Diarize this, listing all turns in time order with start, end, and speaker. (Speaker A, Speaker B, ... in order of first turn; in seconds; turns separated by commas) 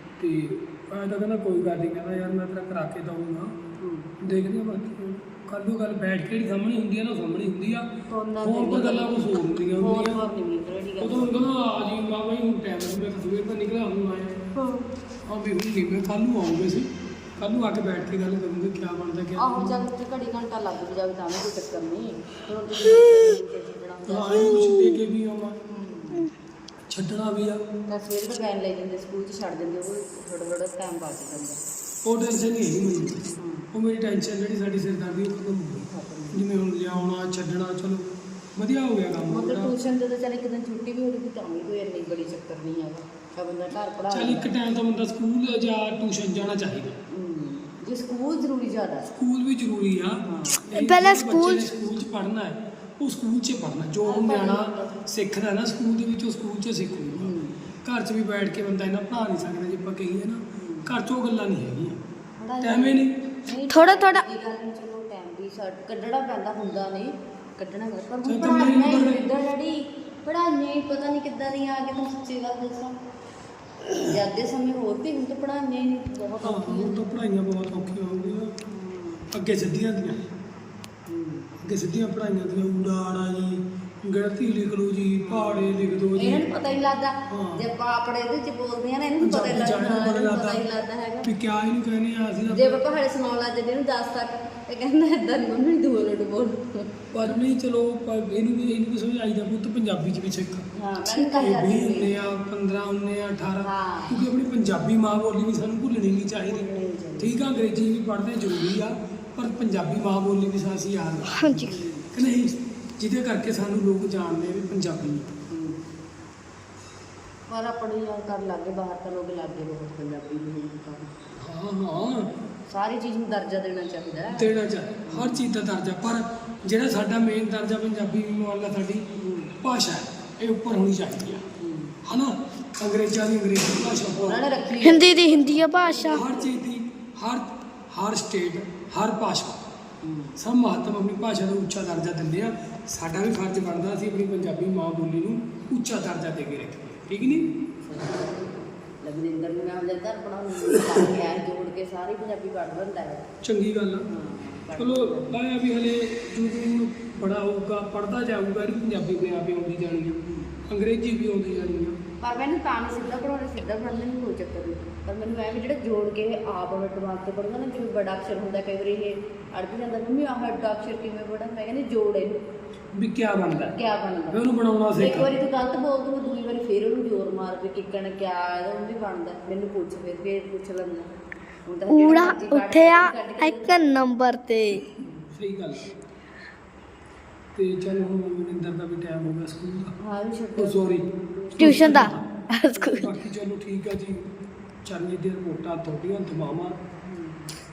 Speaker A: 0.2-3.5, Speaker B: 3.8-4.1, Speaker A: 4.2-10.2, Speaker B: 8.1-9.2, Speaker B: 9.7-11.5, Speaker A: 11.0-14.5, Speaker B: 14.6-14.9, Speaker A: 15.3-19.8, Speaker B: 19.4-24.8, Speaker A: 24.1-25.6, Speaker B: 25.6-26.3, Speaker A: 26.9-27.6, Speaker B: 27.9-31.6, Speaker A: 32.0-39.8, Speaker B: 33.4-33.7, Speaker B: 35.9-36.4, Speaker B: 39.3-44.5, Speaker A: 44.1-47.0, Speaker B: 47.1-49.1, Speaker A: 49.1-62.0, Speaker B: 50.2-50.7, Speaker C: 50.7-51.7, Speaker B: 54.0-55.0, Speaker B: 57.1-57.6, Speaker B: 60.5-60.9, Speaker B: 62.4-73.0, Speaker A: 62.6-63.2, Speaker C: 63.7-64.2, Speaker A: 68.2-69.3, Speaker B: 74.0-77.0, Speaker A: 76.4-78.6, Speaker B: 78.7-79.3, Speaker A: 79.3-80.2, Speaker B: 81.1-81.5, Speaker A: 81.6-86.7, Speaker B: 85.2-91.3, Speaker A: 87.3-87.7, Speaker A: 89.2-90.6, Speaker A: 91.2-92.8, Speaker B: 92.5-96.9, Speaker A: 97.1-115.3, Speaker B: 100.8-102.2, Speaker B: 103.6-104.2, Speaker B: 106.4-107.4, Speaker C: 111.3-111.8, Speaker B: 111.6-112.3, Speaker B: 115.5-115.8, Speaker B: 117.5-121.1, Speaker A: 121.4-122.3, Speaker B: 122.7-125.5, Speaker A: 124.3-131.4, Speaker B: 129.2-129.6, Speaker B: 131.6-132.0, Speaker A: 132.0-134.4, Speaker B: 134.1-136.6, Speaker C: 134.8-136.2, Speaker A: 136.1-139.7, Speaker B: 140.0-140.4, Speaker A: 140.4-147.5, Speaker B: 147.2-153.3, Speaker A: 153.4-154.1, Speaker B: 154.1-155.4, Speaker A: 154.7-162.0, Speaker B: 160.2-160.6, Speaker B: 162.2-172.4, Speaker A: 172.9-175.3, Speaker B: 173.6-174.4, Speaker B: 174.9-181.1, Speaker B: 181.7-184.1, Speaker C: 181.9-184.9, Speaker A: 185.3-185.9, Speaker A: 187.5-189.9, Speaker B: 190.0-192.1, Speaker A: 190.6-192.3, Speaker C: 191.6-193.1, Speaker B: 192.8-193.1, Speaker A: 192.8-194.3, Speaker A: 194.8-196.8, Speaker B: 197.0-197.6